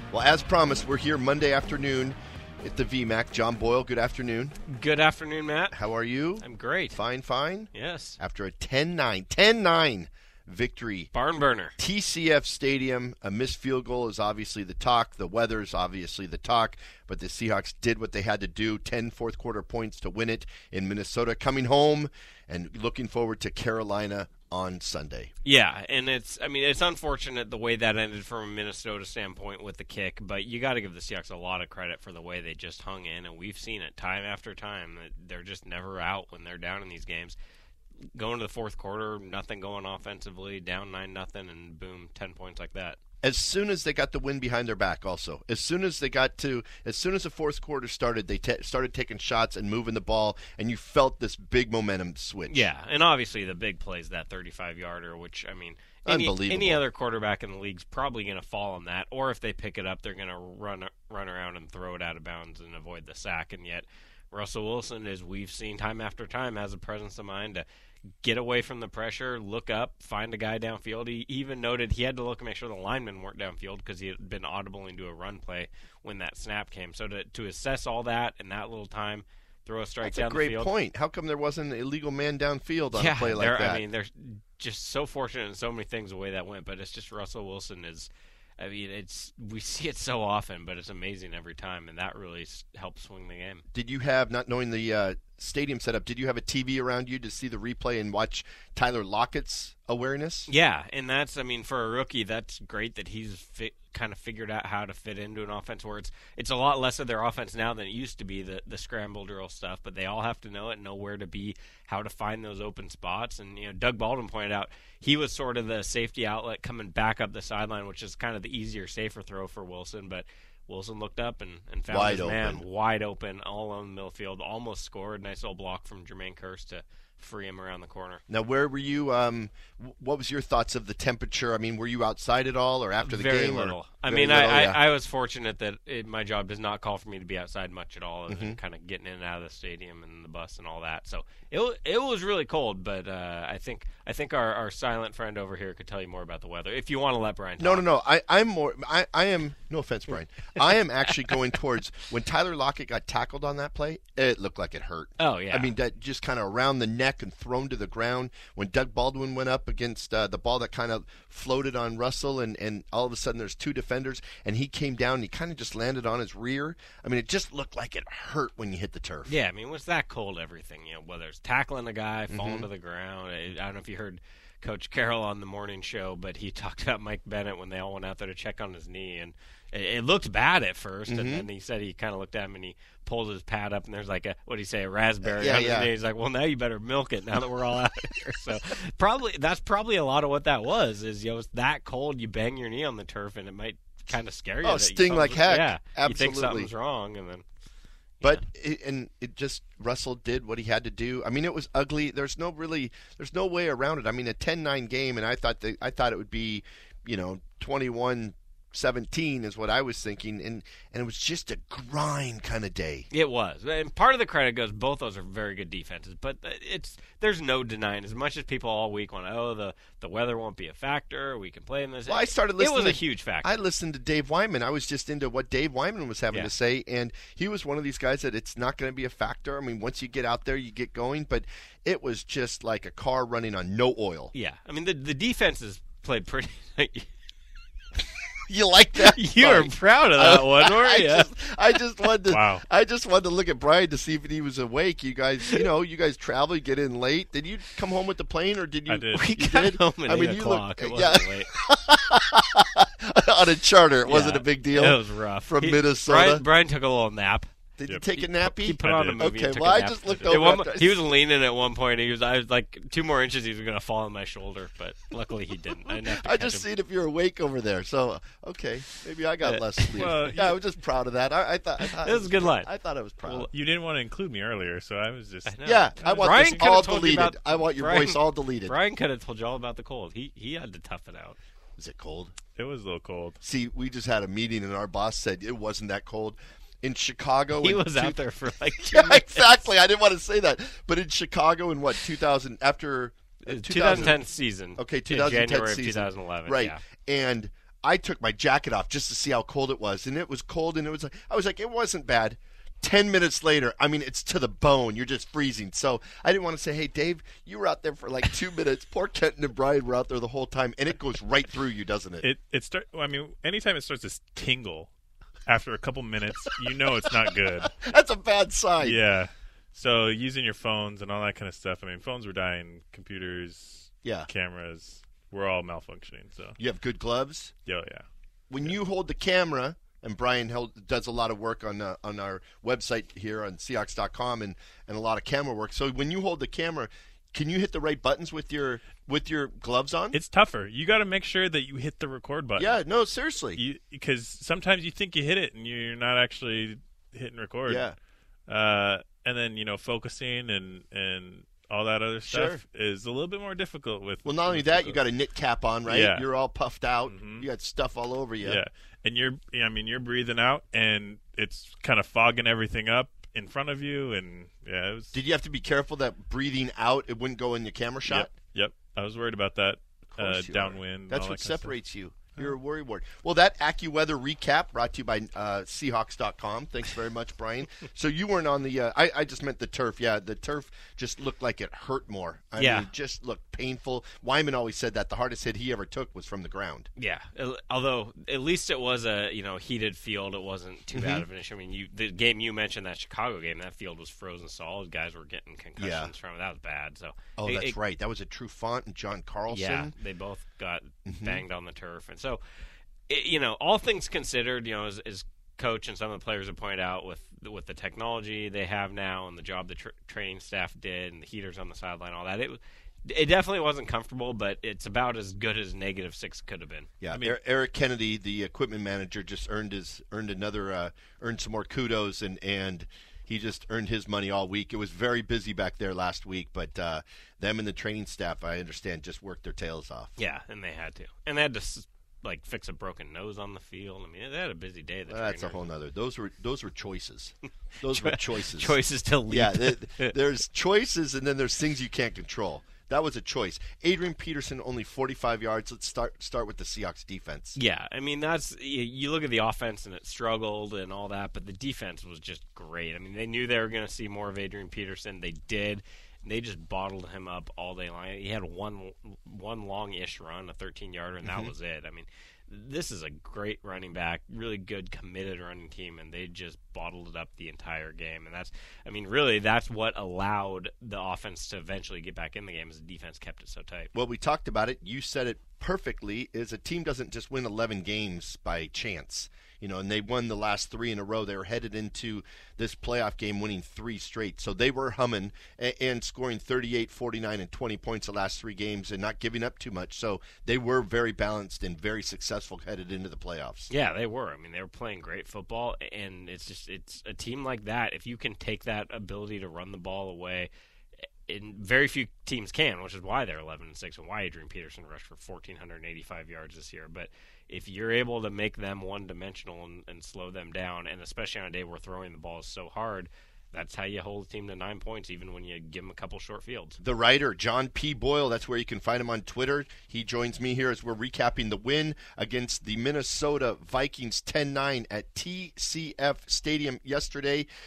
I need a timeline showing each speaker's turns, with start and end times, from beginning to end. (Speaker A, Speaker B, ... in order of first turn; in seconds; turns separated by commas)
Speaker A: 0.1-4.5, Speaker B: 4.7-5.8, Speaker A: 5.7-11.1, Speaker B: 6.4-7.0, Speaker B: 7.7-8.2, Speaker B: 11.1-11.8, Speaker A: 11.8-25.3, Speaker B: 25.4-37.4, Speaker B: 38.1-43.0, Speaker A: 43.2-52.7, Speaker B: 52.5-67.6, Speaker A: 56.0-56.8, Speaker B: 68.2-80.7, Speaker A: 80.0-83.8, Speaker B: 82.9-93.6, Speaker A: 93.7-100.5, Speaker B: 100.5-128.2, Speaker A: 121.9-122.6, Speaker A: 128.3-134.8, Speaker B: 133.0-147.8, Speaker A: 138.3-138.6, Speaker A: 147.6-169.3, Speaker B: 155.2-155.7, Speaker B: 169.2-197.4, Speaker A: 172.3-172.7, Speaker A: 181.1-181.5, Speaker A: 185.2-185.9, Speaker A: 194.6-196.7, Speaker A: 198.2-213.1, Speaker B: 213.1-223.5, Speaker A: 222.1-234.3, Speaker B: 234.3-237.1, Speaker A: 238.5-256.4, Speaker B: 239.0-241.3, Speaker C: 242.3-242.6, Speaker C: 248.9-249.3, Speaker B: 249.1-251.5, Speaker B: 254.1-257.5, Speaker A: 257.8-261.0, Speaker C: 257.9-258.2, Speaker B: 258.4-266.7, Speaker C: 258.8-259.3, Speaker A: 265.9-273.5, Speaker B: 269.4-270.2, Speaker C: 270.0-270.6, Speaker B: 271.9-272.7, Speaker C: 273.4-276.9, Speaker B: 275.4-281.4, Speaker A: 275.6-278.8, Speaker A: 281.8-282.3, Speaker C: 282.6-283.4, Speaker A: 283.4-288.2, Speaker B: 287.6-289.6, Speaker A: 288.8-294.2, Speaker B: 293.4-296.8, Speaker A: 294.8-312.3, Speaker C: 312.2-314.9, Speaker C: 315.4-317.7, Speaker A: 317.4-319.0, Speaker C: 318.8-326.6, Speaker A: 324.0-324.3, Speaker A: 326.6-327.5, Speaker C: 327.6-328.1, Speaker A: 328.5-340.2, Speaker C: 340.1-342.8, Speaker A: 342.6-343.6, Speaker C: 343.5-347.9, Speaker A: 347.7-347.9, Speaker C: 348.5-355.0, Speaker A: 352.3-352.6, Speaker A: 354.2-358.6, Speaker C: 355.8-356.3, Speaker C: 357.1-357.5, Speaker C: 358.4-365.1, Speaker A: 365.1-368.3, Speaker C: 368.1-371.8, Speaker A: 370.1-386.9, Speaker B: 382.6-382.9, Speaker B: 386.9-397.8, Speaker A: 390.9-391.2, Speaker A: 395.8-396.1, Speaker A: 397.4-399.9, Speaker B: 399.5-402.4, Speaker A: 401.1-401.4, Speaker B: 403.1-416.9, Speaker A: 417.0-430.1, Speaker C: 417.1-417.4, Speaker B: 430.1-435.7, Speaker A: 435.1-438.8, Speaker B: 437.9-440.1, Speaker A: 439.3-447.6, Speaker B: 447.5-473.9, Speaker A: 461.2-461.5, Speaker A: 473.9-493.7, Speaker B: 493.7-500.5, Speaker B: 501.2-516.8, Speaker A: 516.8-527.5